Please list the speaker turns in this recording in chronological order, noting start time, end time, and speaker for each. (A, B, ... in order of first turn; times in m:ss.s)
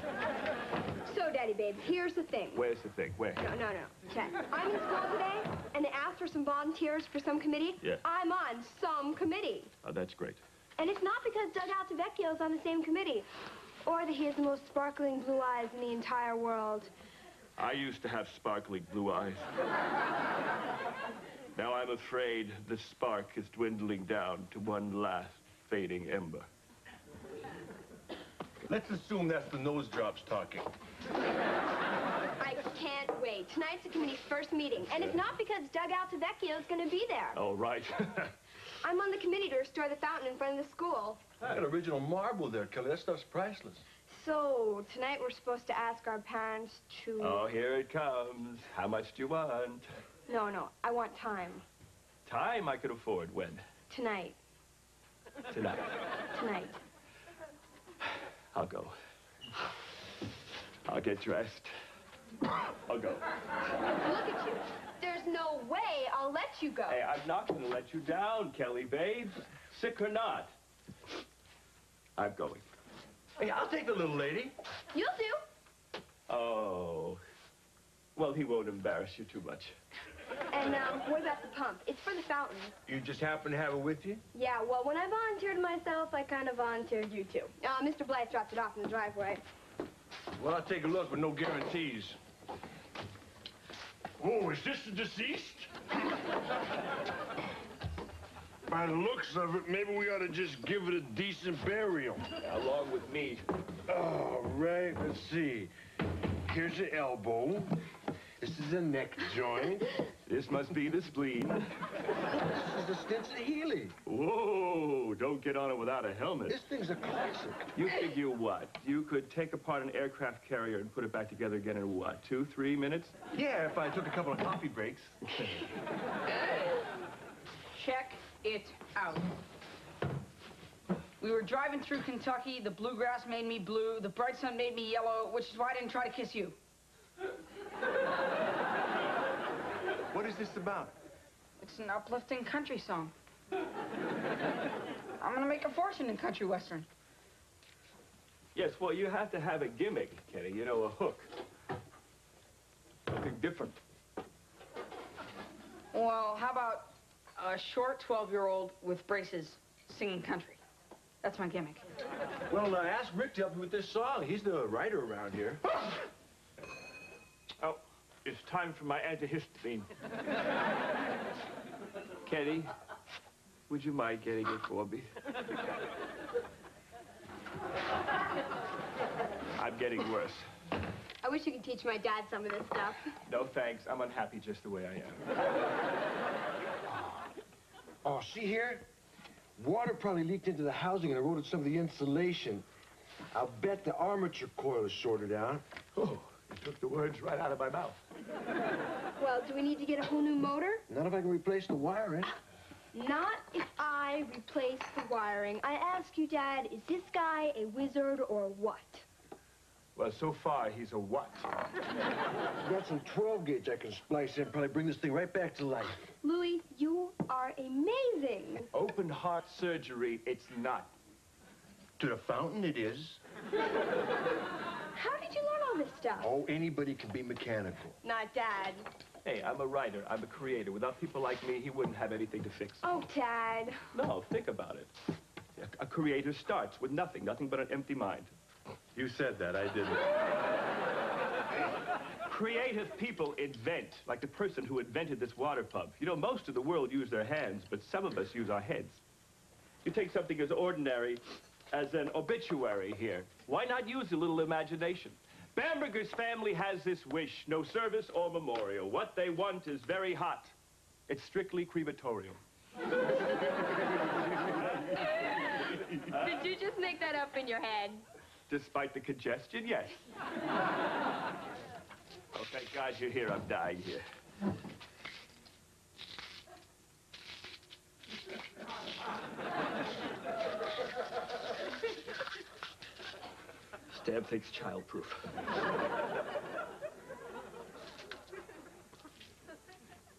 0:01.0-0:02.6 A
0:02.5-0:03.4 B
0:03.4-0:09.7 A
0:09.8-0:10.4 B
0:10.8-0:13.3 A
0:13.8-0:16.9 A
0:17.6-0:19.5 B
0:21.6-0:26.5 B
0:28.7-0:30.7 C
0:32.4-0:37.4 A
0:34.9-0:35.2 B
0:37.3-0:38.3 B
0:38.8-0:41.2 A
0:41.4-0:43.8 C
0:44.1-0:47.4 A
0:47.2-0:49.8 B
0:50.3-0:51.6 A
0:52.2-0:53.6 B
0:53.9-0:54.4 A
0:55.5-0:55.9 B
0:56.3-0:56.8 A
0:58.5-0:59.0 B
1:00.8-1:01.7 B
1:02.8-1:03.2 B
1:04.0-1:07.0 A
1:06.9-1:10.5 B
1:12.2-1:12.6 B
1:13.4-1:14.5 C
1:14.9-1:15.4 A
1:16.3-1:17.2 B
1:18.2-1:19.8 B
1:20.5-1:22.7 A
1:22.8-1:24.2 C
1:24.3-1:29.4 A
1:30.4-1:32.2 C
1:34.2-1:35.7 C
1:38.7-1:42.3 C
1:42.4-1:43.4 B
1:43.9-1:45.7 C
1:46.4-1:47.8 C
1:48.4-1:49.9 C
1:50.2-1:51.7 B
1:52.3-1:53.9 C
1:54.0-1:56.6 B
1:56.4-1:57.7 C
1:57.7-2:03.1 B
2:03.3-2:05.6 C
2:07.7-2:09.3 D
2:11.2-2:16.6 D
2:20.1-2:21.0 C
2:21.6-2:23.1 D
2:25.2-2:26.9 D
2:28.5-2:31.3 B
2:33.1-2:33.8 B
2:35.9-2:40.6 D
2:41.2-2:41.8 D
2:42.5-2:45.6 C
2:47.6-2:49.9 B
2:52.2-2:52.7 B
2:53.7-2:55.1 B
2:59.6-3:00.4 B
3:01.2-3:03.1 A
3:03.2-3:05.2 B
3:08.0-3:08.8 C
3:09.6-3:12.6 C
3:13.3-3:15.6 C
3:16.0-3:18.0 B
3:19.2-3:20.8 A
3:20.9-3:22.3 C
3:22.9-3:29.0 A
3:30.0-3:31.5 B
3:32.6-3:36.1 C
3:36.2-3:38.7 A
3:38.7-3:40.9 B
3:42.0-3:43.2 C
3:44.9-3:46.3 A
3:46.2-3:48.0 C
3:48.0-3:48.9 A
3:49.2-3:52.8 B
3:52.8-3:53.9 A
3:53.9-3:54.9 B
3:55.6-3:58.3 B
3:58.9-4:00.1 C
4:02.2-4:09.0 B
4:09.8-4:20.5 B
4:21.1-4:22.4 B
4:26.1-4:28.0 A
4:28.5-4:30.0 B
4:32.3-4:34.0 B
4:43.9-4:45.3 B